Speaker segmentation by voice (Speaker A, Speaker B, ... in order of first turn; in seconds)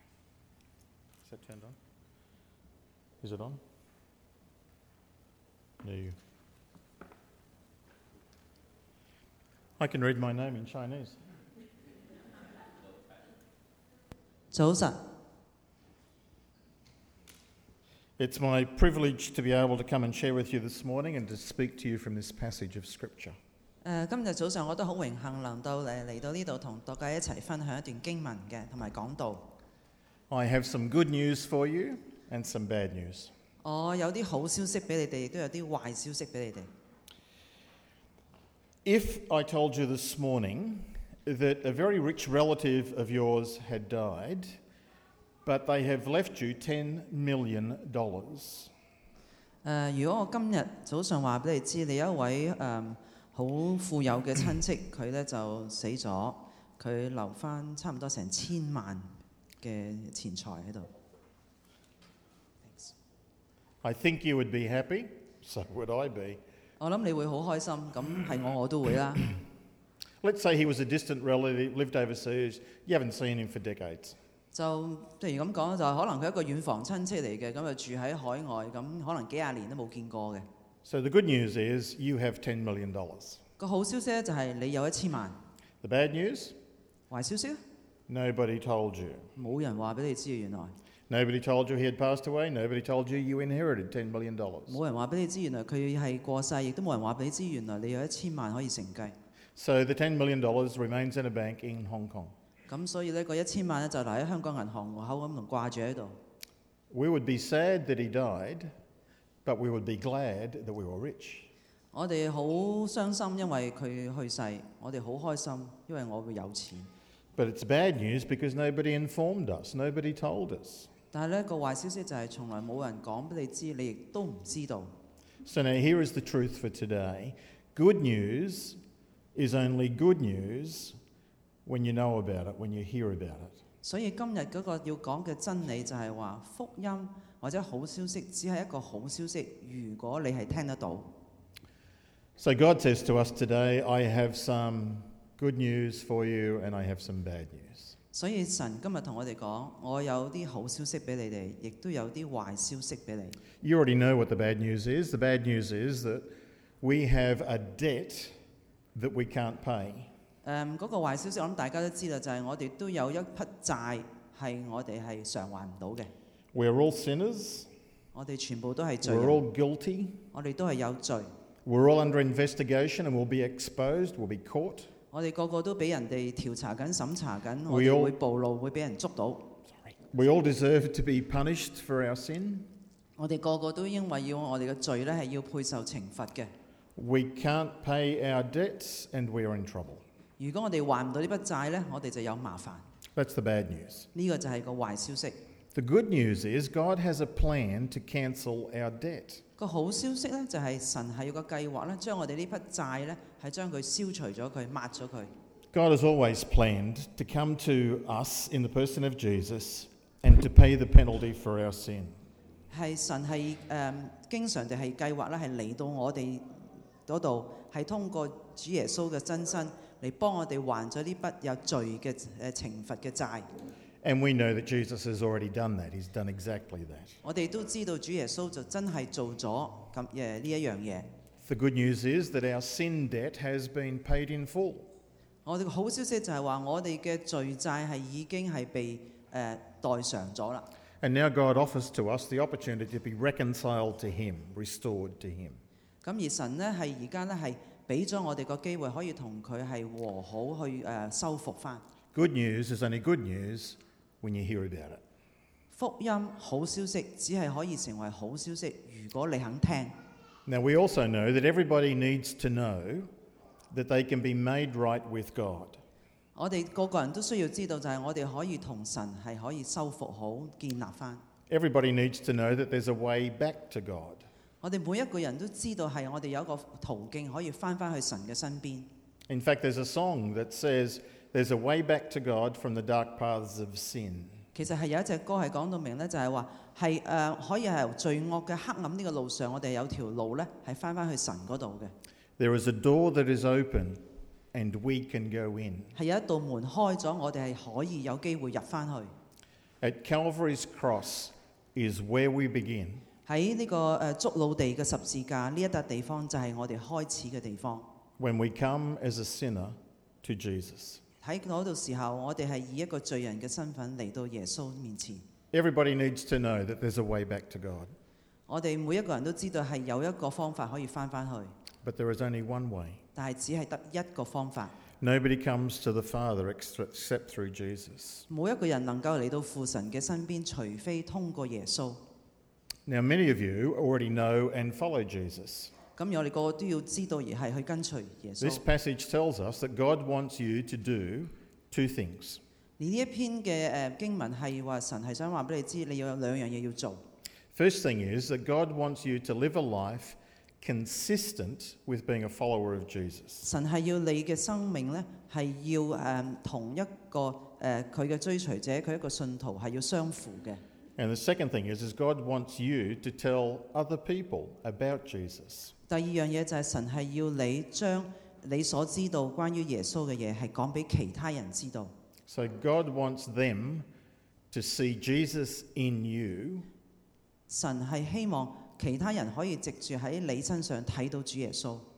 Speaker A: 1.2-1.8, 3.2-3.6, 5.8-6.2, 9.8-11.2, 18.2-23.4, 30.3-33.3, 38.8-44.6, 45.4-48.7, 63.8-66.4, 70.2-74.2, 80.8-83.4, 85.8-86.5, 88.1-89.3, 91.1-94.8, 99.5-102.3, 106.9-108.7, 109.4-111.5, 117.3-120.9, 125.4-128.8, 129.3-130.9, 131.6-133.6, 142.4-147.9, 153.6-156.3, 156.8-158.3, 158.9-160.1, 166.5-167.7, 169.0-170.2, 171.6-174.9, 177.7-178.1, 179.8-182.7, 186.9-190.0, 193.1-194.1, 195.7-199.4, 205.7-212.2, 224.0-227.2, 231.4-234.9, 241.0-245.6, 252.1-255.0, 260.4-263.1, 263.7-265.8, 271.5-274.2, 279.3-284.4, 292.4-295.9, 299.8-303.0, 308.2-311.0, 315.5-317.9, 321.8-323.0, 325.0-328.2, 332.9-335.7, 338.4-342.4, 347.5-353.4, 361.0-365.7, 372.3-373.9, 374.5-376.7
Speaker B: 14.5-15.0, 23.8-29.5, 33.6-36.7, 49.6-60.9, 62.7-62.9, 66.8-69.3, 74.5-80.5, 83.6-85.3, 87.1-87.6, 89.3-90.7, 94.7-99.1, 102.7-106.1, 111.9-116.9, 121.1-124.9, 133.8-141.1, 148.1-153.4, 160.4-166.1, 168.1-169.4, 170.3-171.3, 175.1-179.6, 183.2-186.5, 190.4-192.8, 194.1-195.4, 199.6-205.3, 212.7-223.5, 227.2-231.1, 235.4-240.7, 246.0-251.8, 255.7-259.9, 266.4-271.2, 274.6-278.9, 284.5-291.9, 295.9-299.1, 303.2-307.9, 311.2-315.2, 318.5-321.5, 323.1-324.8, 328.3-332.0, 335.9-338.6, 342.8-347.0, 353.4-360.6, 365.9-371.9, 377.5-381.9